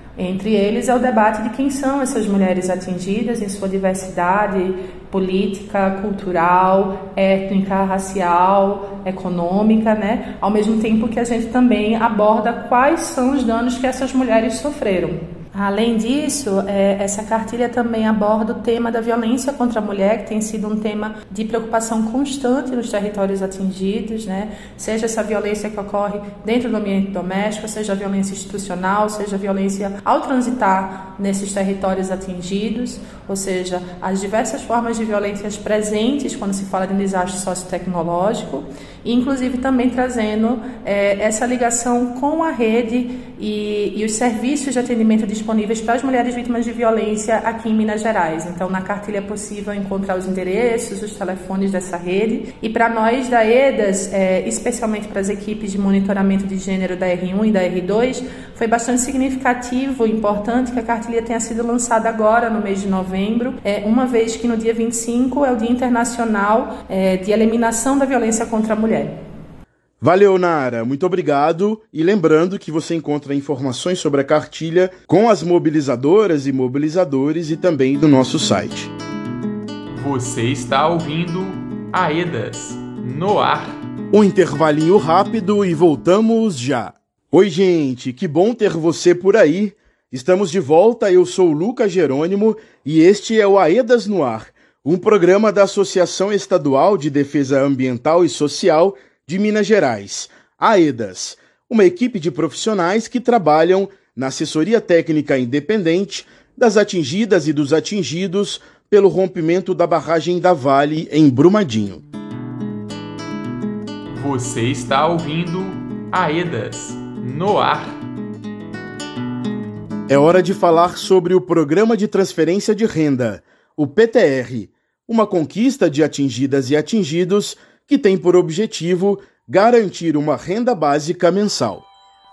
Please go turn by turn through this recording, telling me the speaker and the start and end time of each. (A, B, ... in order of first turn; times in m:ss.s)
0:00.2-1:09.2 A
1:10.0-1:18.9 B
1:19.9-1:23.8 C
1:24.1-1:52.0 B
1:54.1-1:58.0 C
2:00.1-2:11.8 B